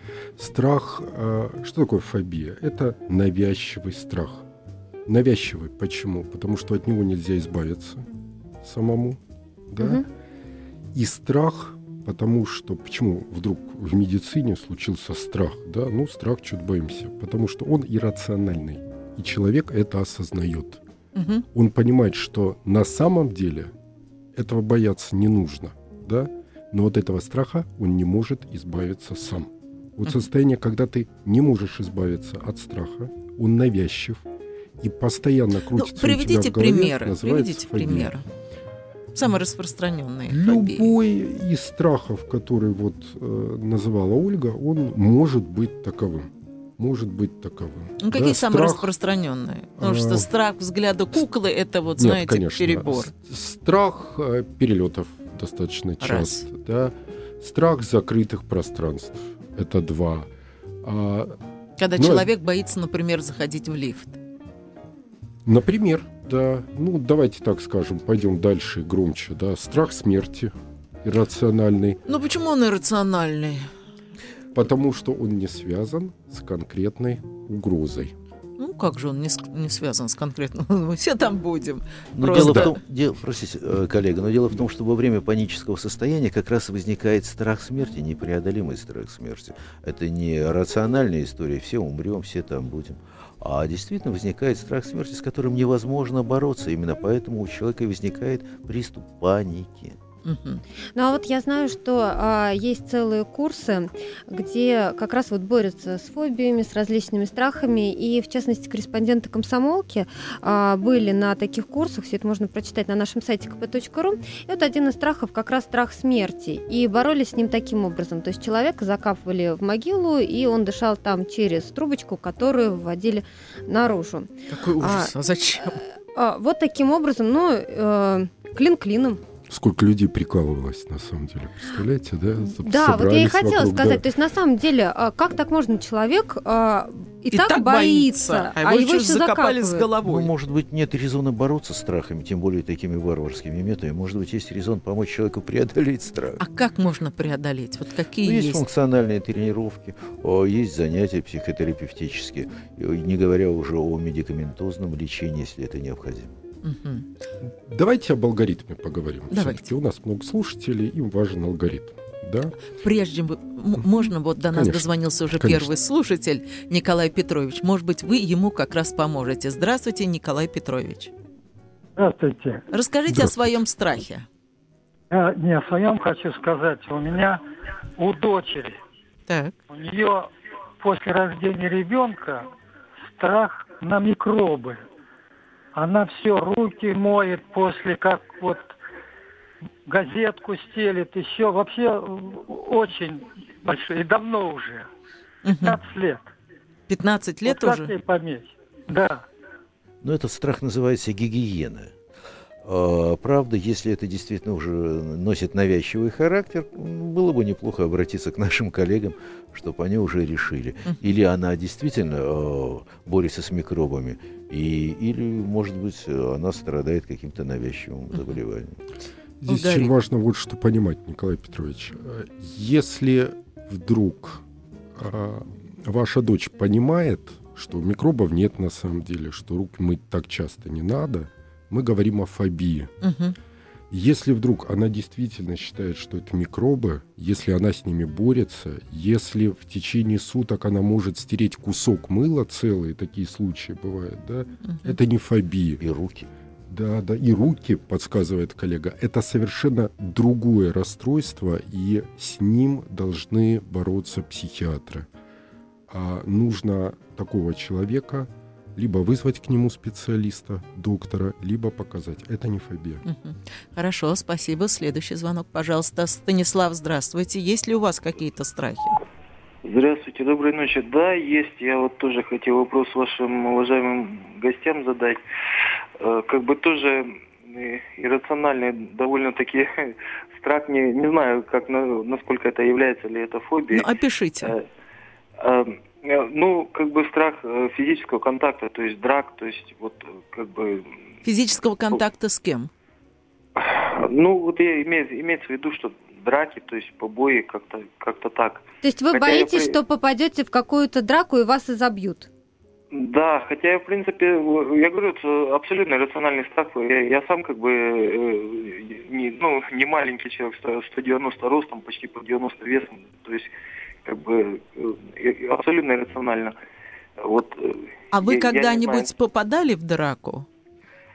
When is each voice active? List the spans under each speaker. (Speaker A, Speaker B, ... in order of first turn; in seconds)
Speaker A: 0.4-4.4, 5.0-8.1, 8.6-10.1, 10.9-20.8, 21.5-23.7, 24.3-34.2, 34.8-38.1, 40.3-48.9, 49.8-50.3, 52.0-60.3, 60.8-61.4, 62.0-62.3, 65.4-72.0, 74.5-78.1, 82.4-82.7, 129.5-134.0, 157.4-162.6, 163.8-165.7, 173.1-173.6, 219.4-224.4, 224.9-232.9, 233.9-245.8, 246.7-255.1, 255.9-263.0
Speaker B: 21.1-21.4, 35.7-38.2, 39.1-40.9, 48.0-53.1, 56.0-56.4, 61.8-64.2, 72.1-73.7, 78.6-82.8, 100.2-100.6, 124.5-125.8, 137.3-140.3, 146.4-148.6, 156.6-157.1, 159.3-159.7, 162.7-171.1, 172.7-174.3, 179.3-179.6, 195.4-195.8, 196.9-197.9, 219.5-219.9, 233.0-233.3, 244.6-244.9, 263.0-269.0, 283.7-284.5, 291.2-292.7, 318.1-320.5
Speaker C: 82.1-100.0, 140.0-146.4, 148.2-156.3, 200.0-201.9, 202.6-218.8, 245.8-246.3
Speaker D: 100.9-129.2, 132.5-139.9, 298.8-302.3
Speaker E: 172.0-172.6, 175.1-177.4, 178.0-178.8, 179.7-182.5, 183.2-184.8, 185.7-188.7, 189.8-194.9, 195.5-196.3, 197.4-199.2
Speaker F: 269.6-275.2, 276.0-283.9, 285.4-290.9, 293.6-299.8, 302.9-313.5, 314.0-316.5, 317.2-319.1